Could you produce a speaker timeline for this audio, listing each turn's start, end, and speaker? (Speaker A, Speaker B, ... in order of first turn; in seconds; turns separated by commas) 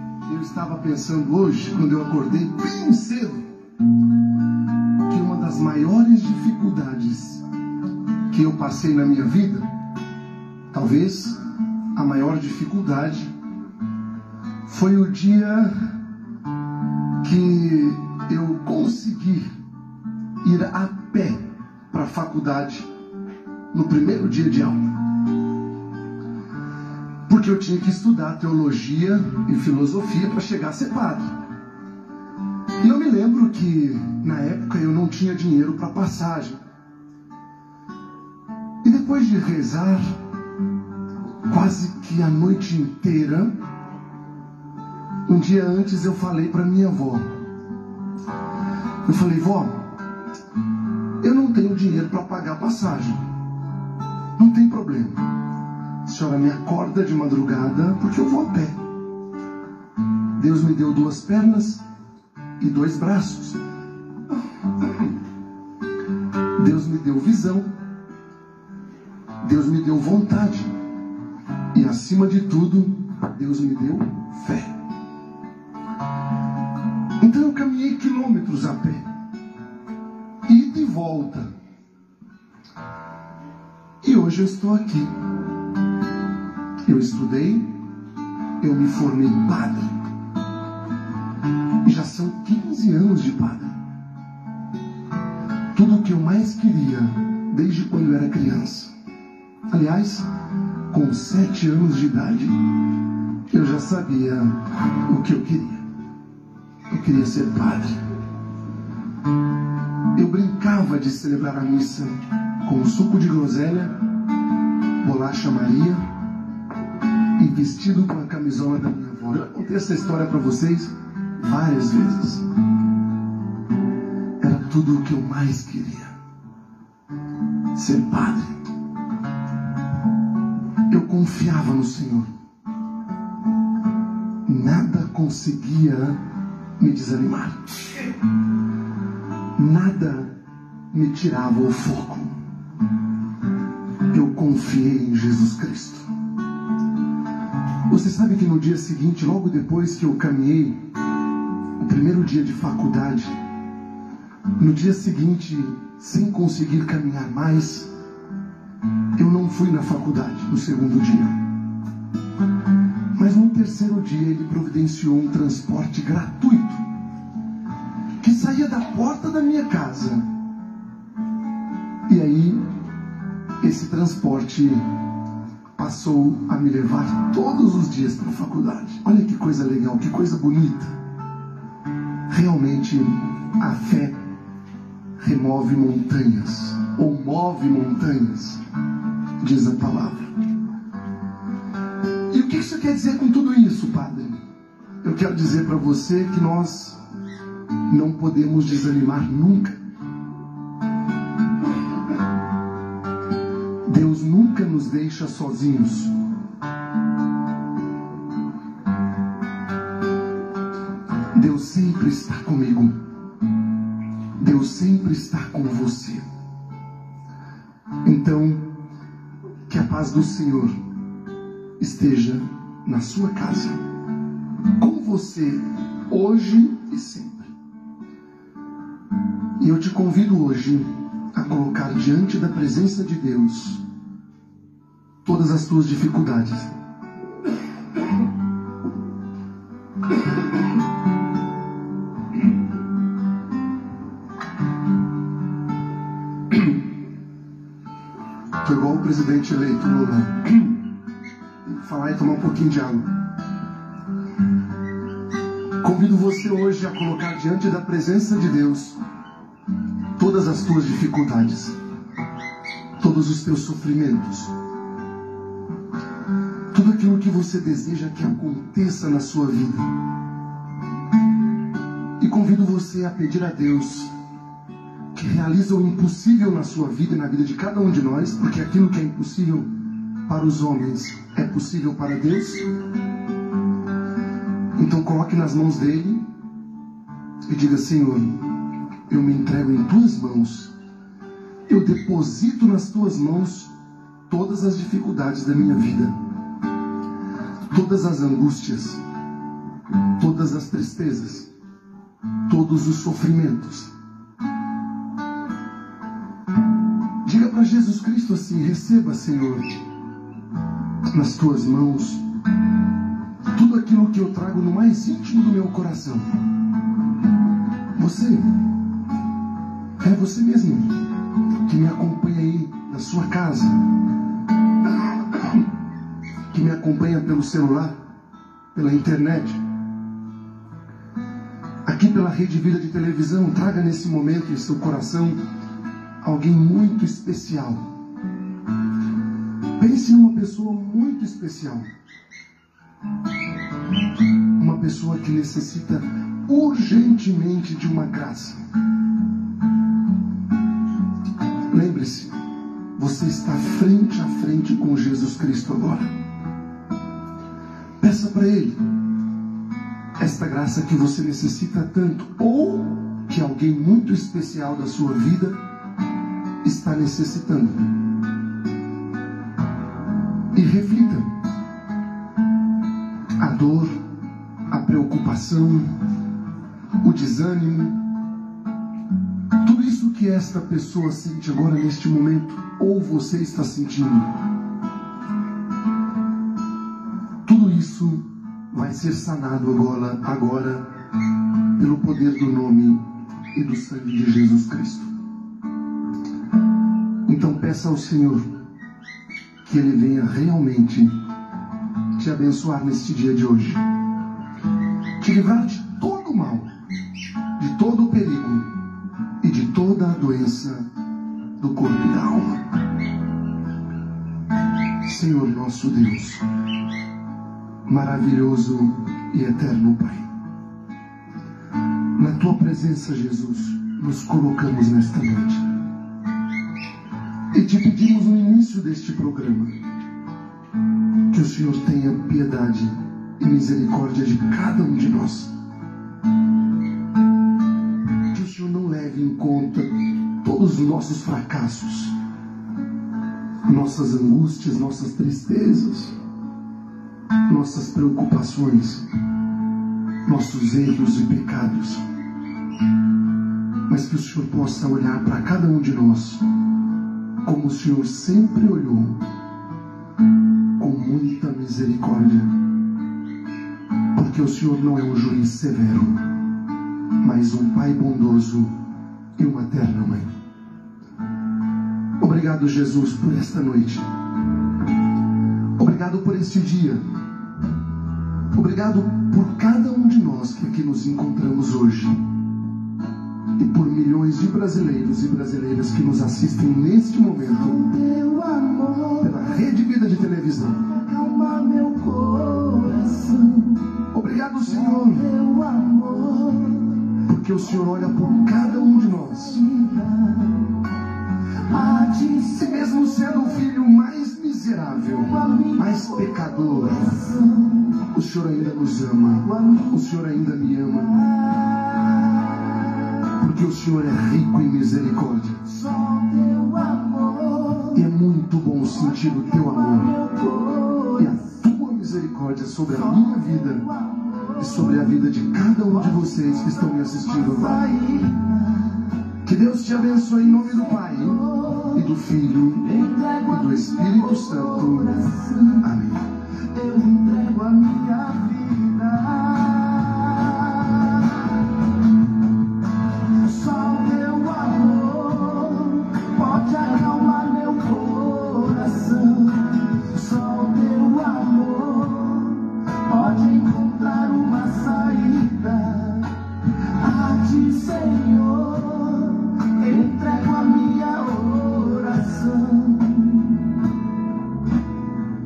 Speaker A: 0.3-3.5, Speaker A: 5.0-7.4, Speaker A: 8.3-9.7, Speaker A: 10.7-11.4, Speaker A: 11.9-13.3, Speaker A: 14.7-15.7, Speaker A: 17.2-19.5, Speaker A: 20.4-22.9, Speaker A: 23.7-25.1, Speaker A: 27.2-31.4, Speaker A: 32.8-36.6, Speaker A: 38.8-40.1, Speaker A: 41.5-43.5, Speaker A: 45.2-47.2, Speaker A: 49.0-49.9, Speaker A: 51.2-53.2, Speaker A: 54.4-55.2, Speaker A: 56.0-58.8, Speaker A: 60.4-61.8, Speaker A: 62.6-63.6, Speaker A: 64.8-65.1, Speaker A: 66.5-67.7, Speaker A: 69.4-70.7, Speaker A: 71.7-74.8, Speaker A: 77.2-79.1, Speaker A: 80.5-81.5, Speaker A: 84.0-85.1, Speaker A: 86.8-87.8, Speaker A: 88.6-90.0, Speaker A: 91.8-93.8, Speaker A: 95.7-98.9, Speaker A: 99.7-100.3, Speaker A: 100.9-102.8, Speaker A: 103.5-105.8, Speaker A: 106.9-108.0, Speaker A: 110.1-114.0, Speaker A: 115.0-116.0, Speaker A: 117.4-122.5, Speaker A: 124.4-126.2, Speaker A: 127.7-128.5, Speaker A: 130.9-132.3, Speaker A: 134.4-136.2, Speaker A: 136.8-138.2, Speaker A: 139.6-140.3, Speaker A: 140.9-142.3, Speaker A: 144.1-146.1, Speaker A: 147.9-150.8, Speaker A: 151.8-153.3, Speaker A: 154.6-157.9, Speaker A: 159.1-161.4, Speaker A: 163.1-166.8, Speaker A: 168.2-170.2, Speaker A: 172.1-172.6, Speaker A: 173.6-174.8, Speaker A: 175.8-180.9, Speaker A: 182.3-184.2, Speaker A: 185.2-188.6, Speaker A: 189.4-190.3, Speaker A: 192.3-194.4, Speaker A: 195.0-197.0, Speaker A: 197.9-199.8, Speaker A: 203.8-206.2, Speaker A: 211.3-212.9, Speaker A: 214.4-216.2, Speaker A: 218.0-218.7, Speaker A: 219.7-220.8, Speaker A: 221.8-223.8, Speaker A: 224.8-227.5, Speaker A: 229.6-233.8, Speaker A: 235.2-236.8, Speaker A: 248.6-250.8, Speaker A: 251.7-253.1, Speaker A: 255.8-259.0, Speaker A: 260.1-261.8, Speaker A: 263.0-264.5, Speaker A: 266.7-269.9, Speaker A: 272.2-274.1, Speaker A: 275.1-279.7, Speaker A: 280.2-282.7, Speaker A: 284.8-286.2, Speaker A: 287.5-288.4, Speaker A: 289.1-290.7, Speaker A: 291.7-293.7, Speaker A: 294.3-296.1, Speaker A: 297.6-299.0, Speaker A: 300.2-301.5, Speaker A: 302.5-303.9, Speaker A: 307.2-309.8, Speaker A: 311.1-312.2, Speaker A: 313.5-316.3, Speaker A: 317.9-318.5, Speaker A: 320.0-321.0, Speaker A: 321.6-323.8, Speaker A: 325.3-325.6, Speaker A: 326.5-327.9, Speaker A: 328.7-329.6, Speaker A: 331.8-335.4, Speaker A: 336.2-337.8, Speaker A: 339.8-341.9, Speaker A: 344.6-348.6, Speaker A: 351.7-352.3, Speaker A: 352.9-356.1, Speaker A: 358.0-358.8, Speaker A: 360.2-365.6, Speaker A: 366.6-367.9, Speaker A: 370.5-371.3, Speaker A: 373.4-374.0, Speaker A: 374.7-375.9, Speaker A: 377.0-378.0, Speaker A: 379.6-384.3, Speaker A: 387.4-390.9, Speaker A: 391.8-393.0, Speaker A: 393.5-395.1, Speaker A: 397.2-398.5, Speaker A: 399.6-401.1, Speaker A: 402.1-403.8, Speaker A: 405.2-406.7, Speaker A: 407.6-408.7, Speaker A: 409.4-410.9, Speaker A: 411.6-412.6, Speaker A: 415.0-416.5, Speaker A: 417.9-420.3, Speaker A: 422.1-425.6, Speaker A: 427.5-429.7, Speaker A: 431.3-435.5, Speaker A: 438.3-442.1, Speaker A: 443.6-446.1, Speaker A: 447.5-449.1, Speaker A: 450.2-452.0, Speaker A: 453.9-456.4, Speaker A: 457.4-459.2, Speaker A: 460.8-462.6, Speaker A: 464.1-466.2, Speaker A: 467.2-468.7, Speaker A: 469.4-470.3, Speaker A: 472.2-474.1, Speaker A: 475.8-477.0, Speaker A: 478.5-482.2, Speaker A: 483.6-487.8, Speaker B: 487.6-489.4, Speaker A: 489.2-490.9, Speaker B: 490.9-493.9, Speaker A: 494.1-495.3, Speaker B: 494.8-497.2, Speaker A: 497.2-499.7, Speaker B: 498.1-500.9, Speaker B: 501.6-503.3, Speaker A: 502.3-507.1, Speaker B: 505.3-507.9, Speaker A: 508.0-511.2, Speaker B: 509.5-509.9, Speaker B: 511.1-513.2, Speaker A: 513.3-515.8, Speaker B: 515.7-518.0, Speaker A: 517.9-520.2, Speaker B: 519.3-521.4, Speaker A: 521.1-523.9, Speaker B: 523.4-524.6, Speaker A: 524.5-527.9, Speaker B: 527.3-529.2, Speaker A: 529.4-535.1, Speaker B: 530.6-531.9, Speaker B: 532.9-535.8, Speaker A: 535.7-536.3, Speaker B: 536.6-541.7, Speaker B: 543.3-563.8